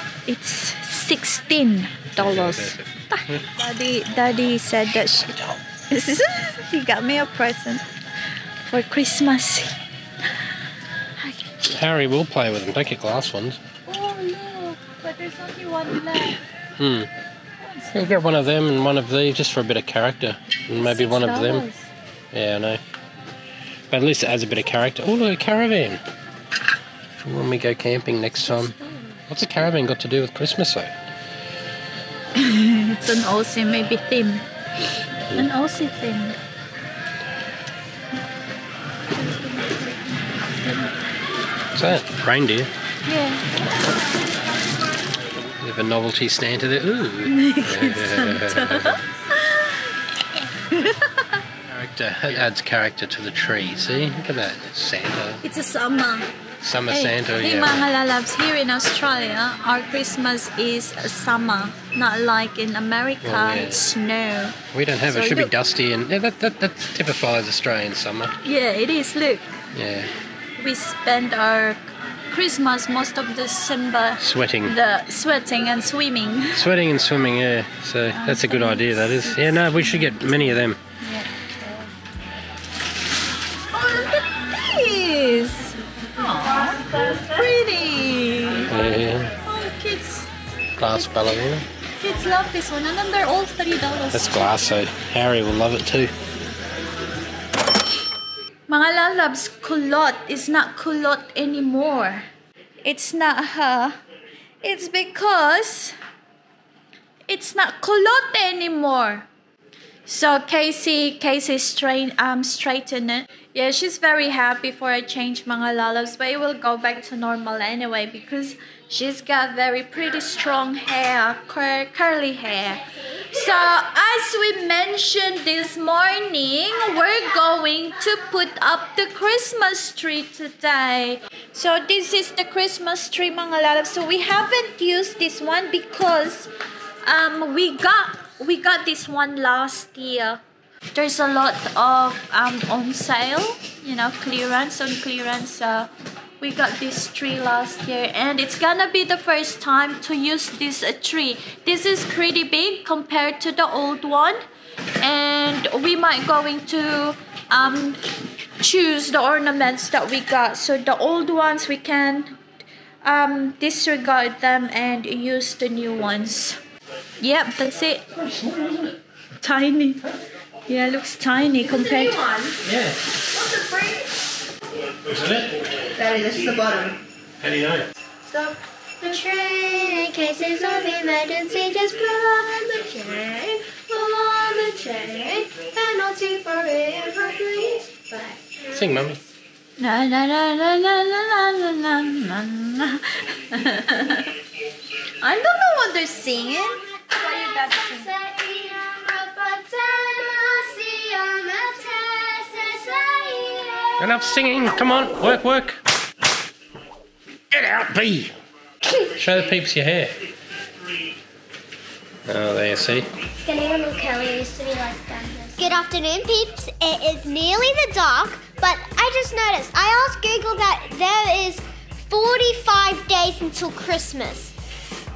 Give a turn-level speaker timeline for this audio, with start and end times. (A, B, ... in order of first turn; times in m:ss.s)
0:00.3-0:07.8 A
0:02.2-0:03.4 B
0:08.7-0:09.8 A
0:11.2-0:11.5 A
0:11.7-0:13.6 B
0:13.9-0:16.4 A
0:16.8-0:17.1 B
0:17.6-0:18.0 A
0:17.9-0:21.7 B
0:20.7-0:21.9 A
0:22.3-0:22.8 B
0:23.9-0:26.0 B
0:27.2-0:28.8 B
0:29.3-0:30.9 B
0:32.4-0:34.5 A
0:35.3-0:36.4 A
0:39.3-0:39.8 A
0:41.7-0:42.7 B
0:43.1-0:43.4 A
0:45.6-0:49.0 B
0:47.2-0:49.9 A
0:50.6-0:51.4 A
0:51.7-0:55.4 B
0:55.4-0:56.3 A
0:56.6-0:57.9 B
0:56.9-1:05.5 A
1:03.2-1:03.8 B
1:04.7-1:08.4 B
1:08.4-1:09.5 A
1:09.7-1:10.1 B
1:10.6-1:16.6 A
1:14.2-1:14.8 B
1:16.5-1:20.8 B
1:18.1-1:21.5 A
1:23.7-1:28.7 A
1:28.7-1:29.3 B
1:29.4-1:30.3 A
1:30.8-1:31.7 B
1:32.0-1:34.5 A
1:34.1-1:36.1 B
1:38.7-1:42.3 A
1:42.8-1:44.0 A
1:44.6-1:46.0 A
1:47.3-1:49.3 A
1:50.1-2:16.5 A
2:17.0-2:20.4 A
2:20.9-2:34.4 A
2:35.0-2:38.0 A
2:38.6-2:42.4 A
2:43.0-2:46.6 A
2:47.2-2:48.1 A
2:48.1-2:49.0 B
2:49.4-2:50.1 A
2:50.7-2:52.2 A
2:51.6-2:52.6 C
2:52.6-2:53.1 B
2:53.3-2:54.1 C
2:55.0-2:55.6 B
2:56.0-2:57.0 C
2:57.4-2:57.9 B
2:58.3-3:09.0 C
3:08.7-3:09.2 B
3:09.8-3:14.4 A
3:15.2-3:18.1 A
3:17.1-3:24.1 C
3:24.0-3:25.8 B
3:27.5-3:28.4 B
3:29.2-3:30.2 B
3:32.3-3:33.1 B
3:33.4-3:44.5 C